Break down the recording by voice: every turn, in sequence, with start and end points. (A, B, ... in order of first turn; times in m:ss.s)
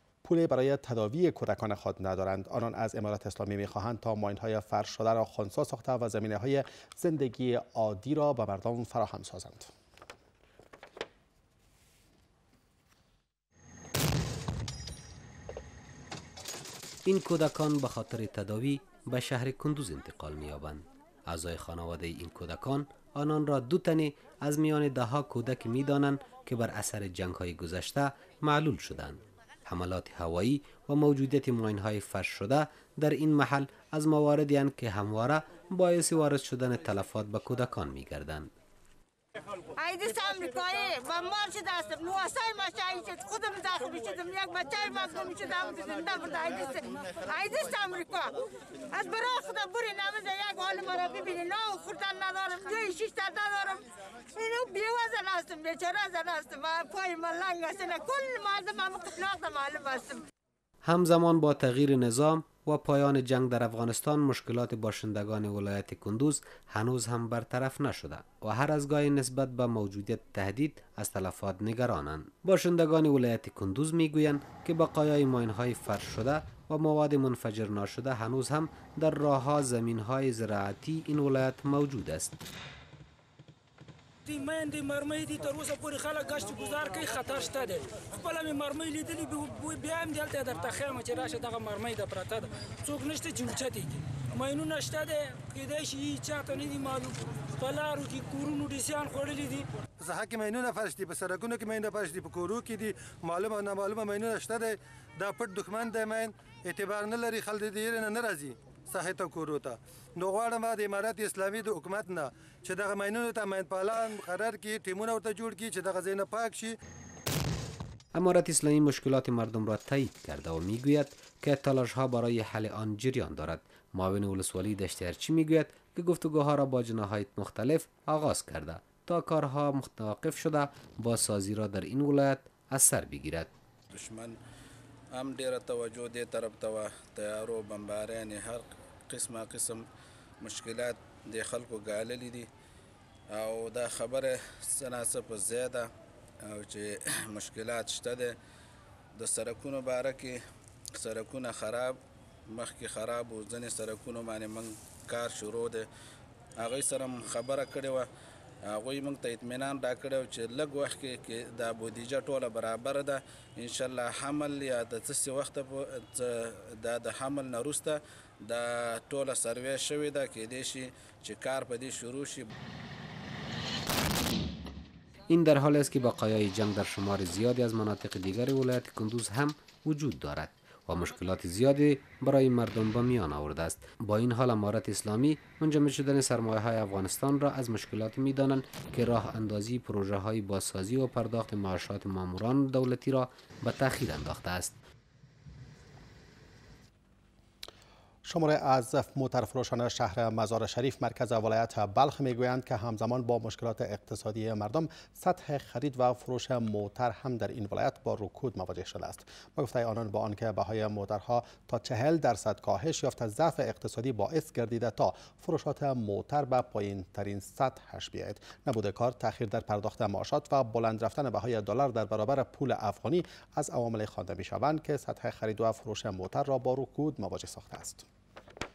0:00.2-0:09.7 A
0:17.0-0:38.5 B
0:39.8-0:48.3 C
0:48.9-1:00.2 C
1:00.8-1:22.4 B
1:24.2-1:39.6 D
1:40.0-1:56.7 E
1:58.1-2:13.5 B
2:13.9-2:14.4 F
2:15.1-2:19.8 F
2:20.4-2:22.5 F
2:23.3-2:25.9 F
2:26.4-2:28.3 F
2:29.1-2:30.4 F
2:31.0-2:32.0 F
2:32.5-2:35.9 F
2:36.6-2:38.1 F
2:38.7-2:52.5 F
2:55.3-3:14.8 B
3:18.2-3:48.0 A